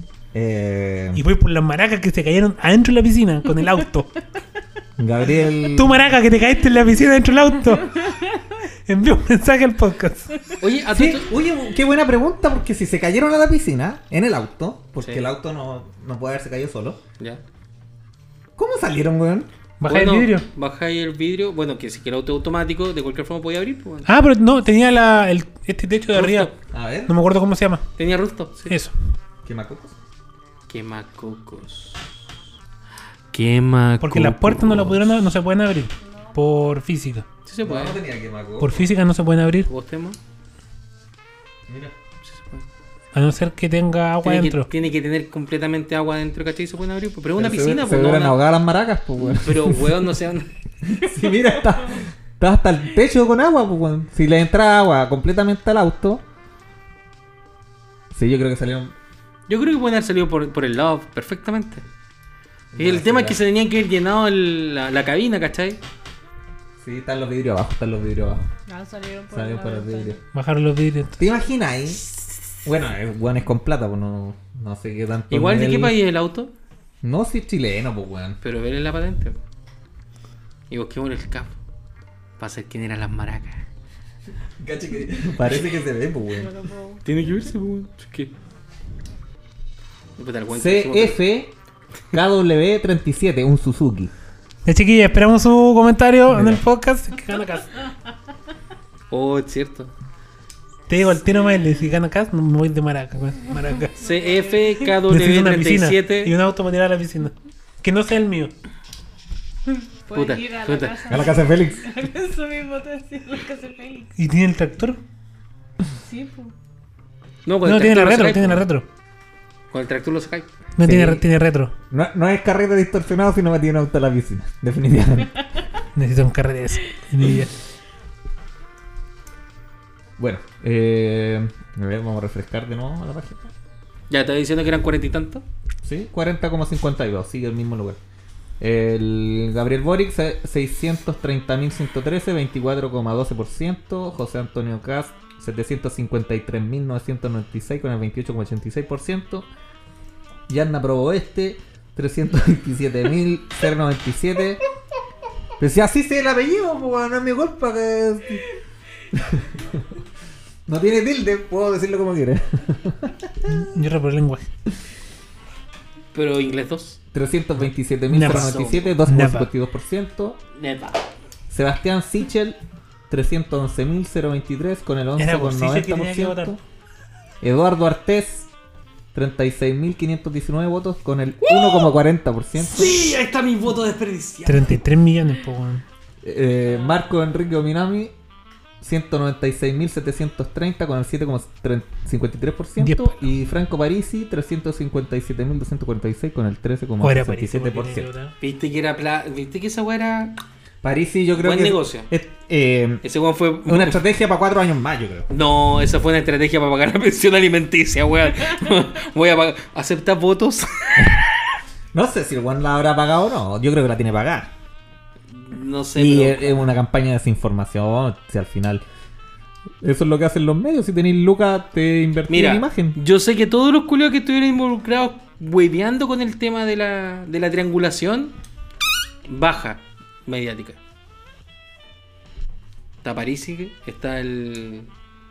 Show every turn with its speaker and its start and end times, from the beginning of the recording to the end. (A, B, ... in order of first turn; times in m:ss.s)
0:00.3-0:01.2 A
0:01.1-0:04.2 B
0:05.0-0:06.0 A
0:05.6-0:08.2 B
0:08.9-0:10.4 B
0:10.6-0:11.3 C
0:10.9-0:17.0 A
0:15.0-0:15.3 C
0:18.6-0:19.5 A
0:19.8-0:20.4 B
0:19.8-0:24.1 C
0:24.0-0:26.5 B
0:26.1-0:26.5 C
0:26.7-0:27.1 A
0:27.1-0:27.9 B
0:28.0-0:28.8 C
0:28.7-0:28.9 B
0:29.4-0:30.0 A
0:30.7-0:32.2 C
0:33.3-0:34.8 C
0:34.0-0:37.2 B
0:34.4-0:35.1 A
0:37.4-0:38.0 C
0:37.6-0:38.8 A
0:38.6-0:39.7 B
0:39.6-0:40.2 C
0:41.7-0:41.9 A
0:42.2-0:42.6 C
0:43.1-0:44.7 B
0:44.2-0:48.4 C
0:47.4-0:50.1 A
0:49.2-0:50.5 C
0:50.8-0:56.2 A
0:58.1-0:58.9 A
0:59.5-1:01.8 C
1:02.7-1:03.4 A
1:02.8-1:05.8 C
1:06.8-1:08.5 A
1:08.7-1:10.2 D
1:09.3-1:10.2 A
1:10.3-1:11.2 B
1:11.2-1:12.1 A
1:12.6-1:16.0 A
1:15.3-1:16.5 C
1:17.0-1:18.4 A
1:18.4-1:19.4 C
1:20.7-1:21.6 C
1:22.4-1:23.6 C
1:24.6-1:26.5 A
1:26.3-1:27.0 D
1:27.0-1:28.3 C
1:30.2-1:31.2 C
1:30.5-1:31.5 A
1:32.1-1:34.1 A
1:34.6-1:37.8 B
1:36.3-1:36.6 A
1:39.1-1:39.9 C
1:40.9-1:43.9 B
1:44.0-1:44.9 D
1:44.0-1:46.3 C
1:45.1-1:48.5 B
1:50.1-1:54.1 D
1:50.1-1:51.1 C
1:51.0-1:51.9 A
1:54.2-1:55.0 B
1:56.0-1:56.5 D
1:57.4-1:58.7 C
1:57.6-1:58.8 B
1:59.7-2:00.5 C
2:00.8-2:01.7 B
2:00.8-2:01.2 A
2:01.9-2:05.4 A
2:06.0-2:07.5 B
2:10.2-2:13.5 A
2:14.1-2:15.4 C
2:15.8-2:18.0 A
2:18.6-2:29.5 A
2:30.5-2:34.6 A
2:35.6-2:38.4 A
2:39.1-2:39.8 A
2:40.7-2:43.5 A
2:43.5-2:44.4 B
2:46.1-2:47.0 C
2:47.1-2:50.4 A
2:48.1-2:49.5 B
2:48.2-2:48.9 C
2:50.5-2:51.0 C
2:51.5-2:52.6 A
2:53.1-2:56.6 A
2:55.2-2:56.6 B
2:57.4-2:58.5 A
2:59.1-3:03.0 A
3:01.4-3:01.9 C
3:02.6-3:04.8 C
3:04.4-3:05.8 B
3:06.2-3:08.1 A
3:08.8-3:18.1 A
3:12.8-3:13.2 B
3:17.0-3:18.3 B
3:18.4-3:20.4 C
3:20.8-3:23.0 A
3:21.4-3:22.1 C
3:23.0-3:24.0 C
3:23.7-3:25.3 A
3:25.3-3:31.2 C
3:31.0-3:31.2 A
3:31.9-3:34.5 A
3:35.3-3:36.6 C
3:36.0-3:38.8 A
3:39.8-3:43.0 A
3:42.3-3:48.3 C
3:49.2-3:50.8 C
3:53.0-3:54.9 C